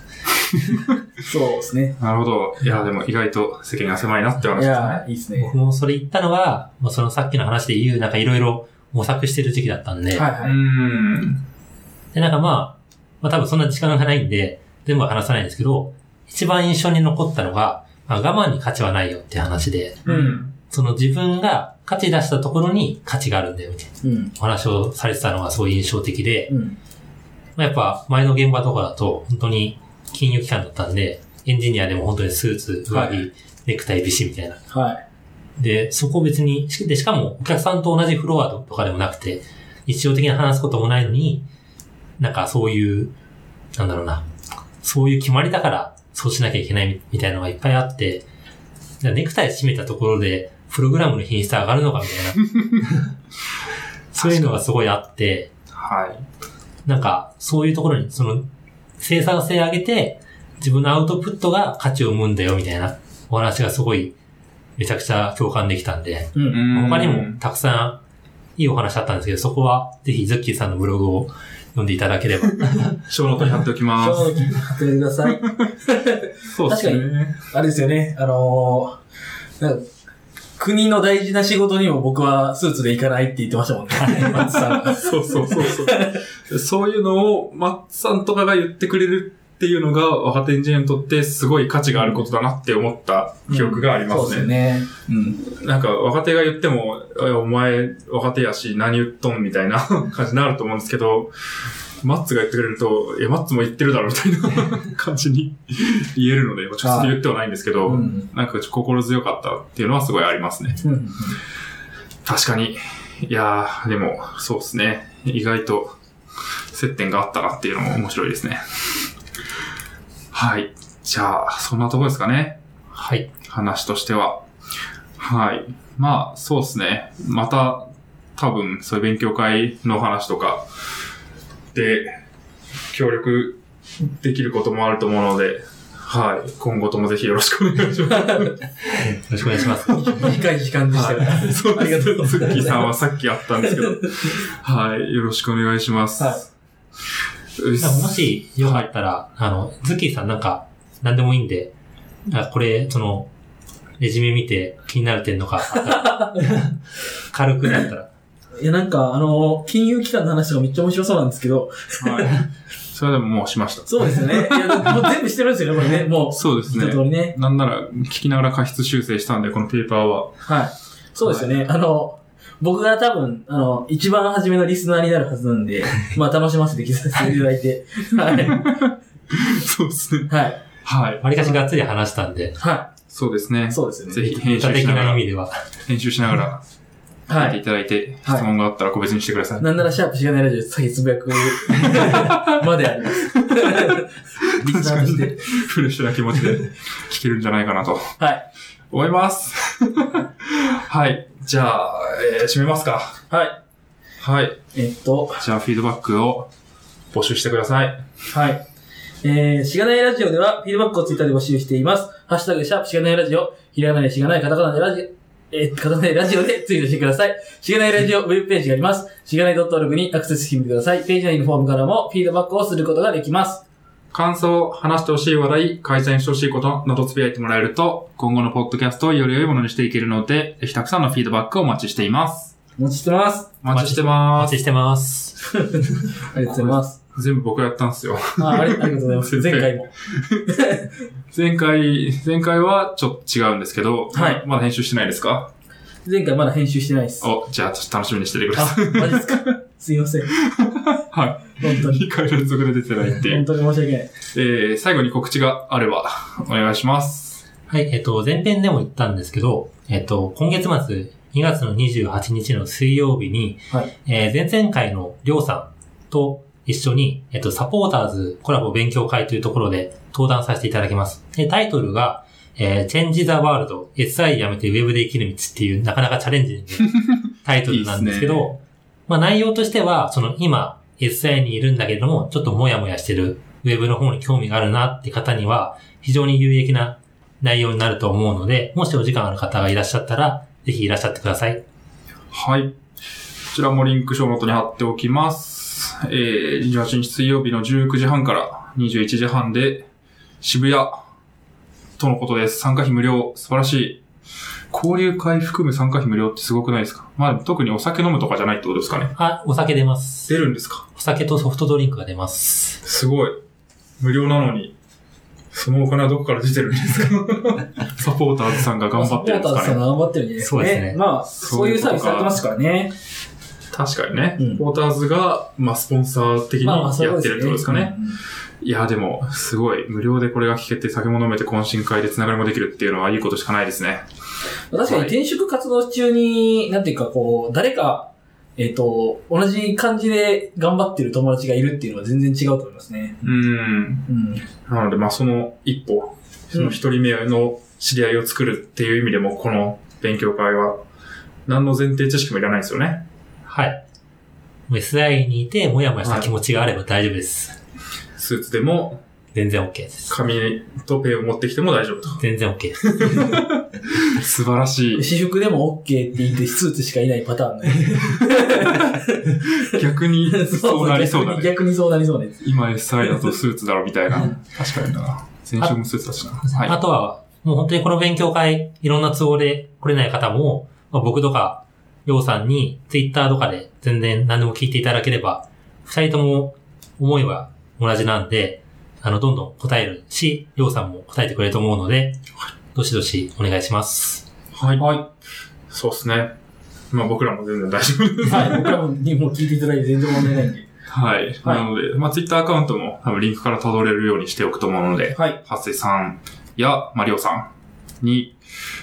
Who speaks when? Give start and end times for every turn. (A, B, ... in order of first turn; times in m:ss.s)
0:00.3-0:01.0 A
0:01.2-0:02.0 B
0:02.0-0:05.0 A
0:04.5-0:05.6 B
0:05.4-0:10.3 C
0:10.1-0:10.6 B
0:10.4-0:11.4 A
0:12.1-0:20.0 C
0:20.1-0:20.4 B
0:20.1-0:20.5 A
0:20.7-0:26.5 C
0:24.0-0:24.3 B
0:26.5-0:26.8 B
0:27.6-0:34.6 C
0:32.9-0:33.2 B
0:34.7-0:35.0 B
0:35.6-0:41.4 C
0:42.2-0:43.1 C
0:43.8-0:44.3 C
0:44.8-0:48.3 C
0:49.0-0:53.1 C
0:54.1-0:55.5 C
0:54.2-0:54.6 A
0:55.8-0:56.2 A
0:56.9-0:58.5 C
0:59.0-1:04.1 C
1:04.8-1:08.0 C
1:06.4-1:06.6 B
1:06.5-1:07.4 A
1:08.6-1:13.0 C
1:13.0-1:14.4 A
1:14.0-1:19.0 B
1:15.3-1:15.7 A
1:16.5-1:17.4 A
1:19.6-1:19.9 B
1:20.6-1:26.2 B
1:24.9-1:34.5 A
1:33.5-1:35.4 B
1:35.4-1:41.3 A
1:42.0-1:50.8 A
1:46.8-1:47.2 B
1:47.8-1:48.3 B
1:50.8-1:51.4 B
1:52.2-1:56.0 A
1:56.7-1:59.1 A
2:00.3-2:02.6 A
2:03.0-2:03.3 C
2:03.4-2:04.4 A
2:05.2-2:10.7 A
2:11.7-2:12.2 A
2:12.9-2:18.6 A
2:18.8-2:20.2 C
2:19.9-2:22.9 B
2:20.9-2:26.4 A
2:26.2-2:26.4 B
2:27.6-2:28.9 A
2:27.8-2:31.7 C
2:32.3-2:33.3 C
2:34.0-2:36.8 C
2:37.3-2:38.1 C
2:38.6-2:42.4 B
2:42.0-2:44.9 A
2:43.9-2:47.3 B
2:46.3-2:50.4 A
2:50.5-2:58.7 B
2:51.2-2:51.5 A
2:58.3-3:00.3 A
3:00.3-3:00.6 B
3:00.8-3:01.2 A
3:01.2-3:02.6 C
3:02.6-3:02.9 B
3:03.1-3:05.2 A
3:03.7-3:04.3 B
3:04.2-3:05.6 C
3:05.8-3:06.6 A
3:07.3-3:07.6 B
3:07.3-3:09.7 A
3:08.2-3:08.5 B
3:09.6-3:15.5 B
3:11.6-3:18.2 A
3:18.9-3:23.2 A
3:23.3-3:23.6 B
3:24.2-3:24.6 A
3:24.7-3:25.4 B
3:25.4-3:26.5 A
3:27.1-3:28.0 A
3:28.3-3:28.6 B
3:29.2-3:43.6 B
3:44.1-3:52.5 A
3:52.8-3:53.6 B
3:53.6-3:54.6 A
3:53.7-3:55.4 C
3:55.6-3:57.0 B
3:56.4-4:00.5 A
3:58.4-3:59.9 B
4:00.5-4:00.9 B
4:01.3-4:05.5 A
4:04.1-4:04.4 B
4:06.0-4:07.3 B
4:07.2-4:09.4 A
4:08.6-4:10.4 B
4:10.4-4:13.4 A
4:11.6-4:12.1 B
4:13.2-4:14.1 B
4:14.3-4:17.4 A
4:17.7-4:38.6 C
4:37.7-4:38.5 A
4:39.1-4:51.6 C
4:52.3-4:52.8 A
4:53.5-4:59.9 A
5:00.4-5:01.0 A
5:02.0-5:04.0 A
5:04.7-5:09.2 A
5:09.2-5:10.4 C
5:10.3-5:10.8 A
5:11.0-5:12.8 C
5:12.8-5:13.4 A
5:14.0-5:14.8 A
5:15.5-5:19.8 A
5:19.0-5:22.9 B
5:20.4-5:21.0 C
5:21.3-5:22.4 A
5:23.7-5:28.0 A
5:26.6-5:28.2 B
5:28.6-5:34.1 A
5:34.7-5:43.4 B
5:34.8-5:35.2 A
5:43.2-5:44.1 A
5:44.1-5:44.4 B
5:44.7-5:50.8 A
5:51.5-5:53.0 A
5:53.5-5:53.8 C
5:54.7-5:57.6 C
5:56.0-5:56.3 A
5:58.2-5:59.0 A
5:59.3-6:00.1 C
6:00.1-6:02.2 A
6:02.2-6:03.3 C
6:02.8-6:05.1 A
6:05.0-6:12.4 B
6:08.0-6:11.5 A
6:12.4-6:16.8 A
6:16.4-6:32.2 C
6:32.7-6:34.3 C
6:34.6-6:35.1 A
6:35.7-6:36.4 A
6:36.9-6:38.8 A
6:38.2-6:40.7 B
6:40.9-6:48.4 A